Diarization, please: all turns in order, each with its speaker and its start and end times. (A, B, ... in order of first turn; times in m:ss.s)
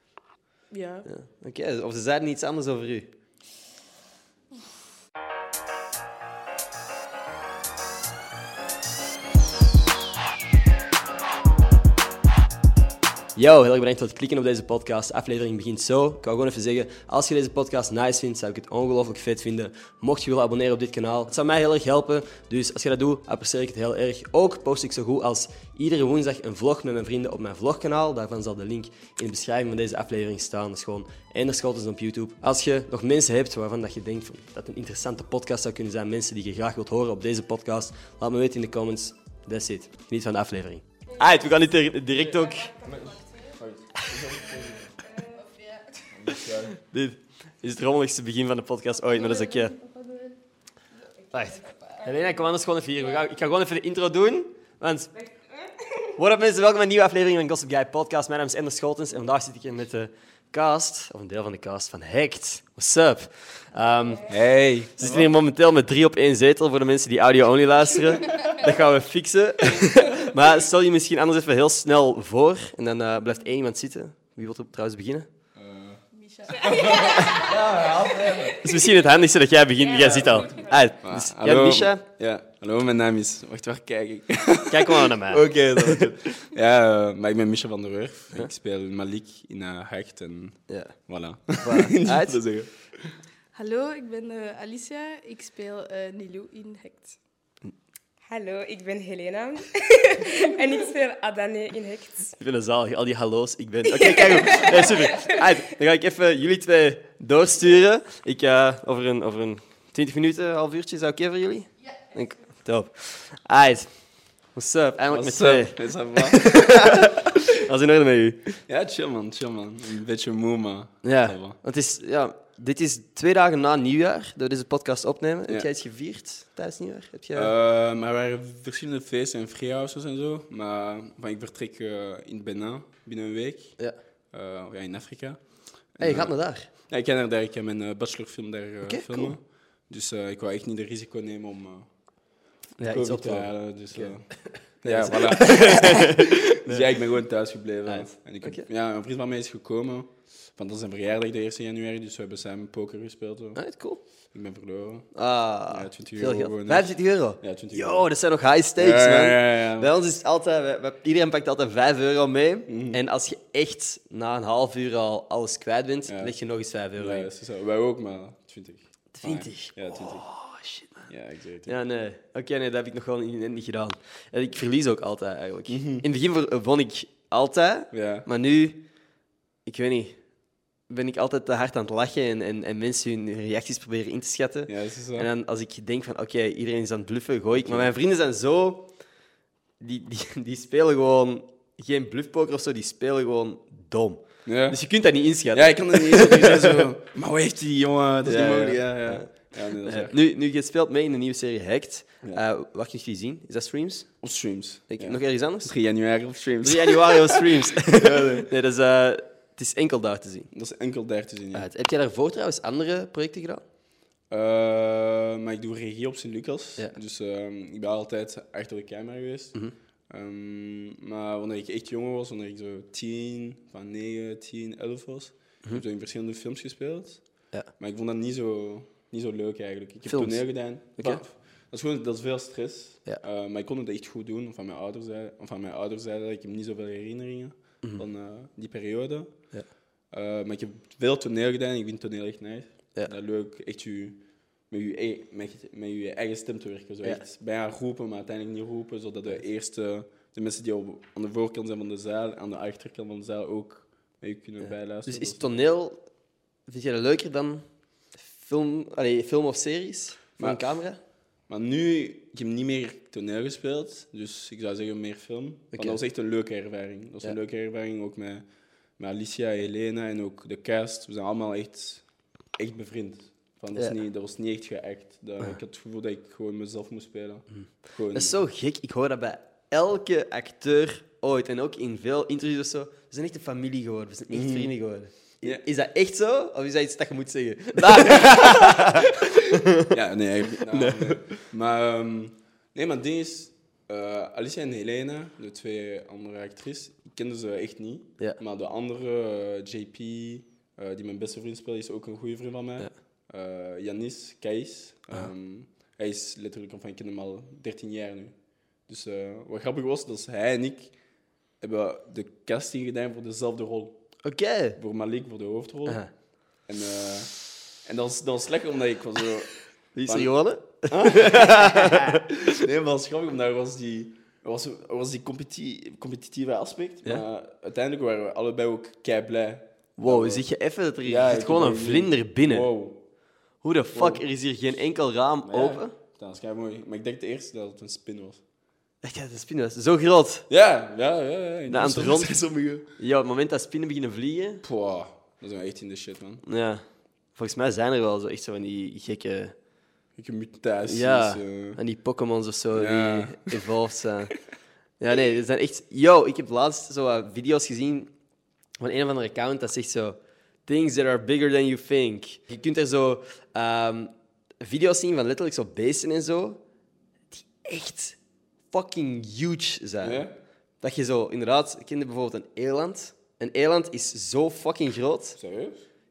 0:00.7-0:01.1 A
0:01.0-0:03.1 B
0:13.4-0:42.8 B
0:42.8-0:45.0 C
0:44.0-0:44.3 B
0:45.3-0:46.1 A
0:46.1-0:46.8 C
0:46.4-0:49.7 B
0:49.1-0:50.4 A
0:51.3-0:55.1 B
0:51.6-0:52.0 A
0:56.2-1:04.3 B
1:04.3-1:05.3 C
1:05.0-1:15.3 B
1:15.6-1:16.0 C
1:16.1-1:17.2 A
1:16.6-1:18.9 C
1:16.9-1:17.6 B
1:18.5-1:22.0 B
1:20.0-1:20.7 D
1:21.0-1:33.2 C
1:24.7-1:26.1 B
1:30.7-1:31.0 B
1:31.6-1:32.4 B
1:33.5-1:37.2 A
1:38.3-1:42.4 D
1:42.4-1:53.9 B
1:43.9-1:45.4 D
1:54.5-1:58.6 B
1:55.1-1:57.4 C
1:58.7-2:01.6 C
2:01.0-2:07.5 B
2:07.3-2:13.8 C
2:14.3-2:15.4 C
2:16.0-2:21.9 C
2:16.0-2:16.7 B
2:18.8-2:19.4 B
2:22.8-2:33.6 C
2:22.8-2:26.9 B
2:27.9-2:28.7 B
2:33.6-2:34.0 B
2:34.3-2:35.1 C
2:35.1-2:47.3 B
2:35.7-2:38.1 C
2:38.8-2:39.9 C
2:42.7-2:43.0 C
2:46.1-2:46.4 C
2:47.0-2:50.3 C
2:49.1-2:51.1 B
2:51.1-2:51.8 C
2:51.7-2:58.9 B
2:55.7-2:56.1 C
2:57.9-2:58.3 C
2:59.7-3:00.2 B
3:00.9-3:08.9 B
3:04.7-3:05.3 C
3:07.5-3:07.9 C
3:09.8-3:16.9 B
3:14.5-3:14.8 C
3:15.5-3:20.2 C
3:18.2-3:24.1 B
3:24.2-3:28.5 C
3:24.9-3:25.8 B
3:26.6-3:30.5 B
3:30.5-3:31.7 C
3:31.5-3:33.6 B
3:34.3-3:39.6 C
3:40.1-3:47.2 C
3:47.8-3:59.3 C
3:50.1-3:51.2 B
4:00.1-4:15.5 C
4:15.1-4:16.0 B
4:16.7-4:21.0 B
4:20.4-4:20.7 C
4:21.5-4:28.5 C
4:25.7-4:26.0 B
4:29.0-4:32.0 C
4:32.6-4:38.4 C
4:37.6-4:50.0 B
4:44.3-4:44.7 C
4:47.8-4:49.2 C
4:49.8-5:10.9 C
4:50.7-4:51.4 B
5:11.6-5:14.1 C
5:14.2-5:14.8 B
5:14.8-5:16.0 C
5:15.9-5:16.1 B
5:16.7-5:20.3 C
5:20.0-5:22.5 B
5:20.9-5:30.5 C
5:30.0-5:32.7 B
5:31.0-5:33.0 C
5:33.6-5:35.9 B
5:33.9-5:34.2 C
5:35.4-5:38.4 C
5:39.0-5:40.5 B
5:40.5-5:42.9 C
5:41.7-5:42.4 B
5:43.0-5:44.6 B
5:44.6-5:46.4 C
5:46.4-5:49.6 B
5:50.2-5:51.8 C
5:50.8-5:54.4 B
5:52.7-5:53.6 C
5:55.0-5:58.1 B
5:58.8-6:06.6 B
6:07.3-6:08.2 B
6:08.7-6:10.3 B
6:10.0-6:10.4 C
6:10.8-6:15.4 B
6:15.4-6:15.9 C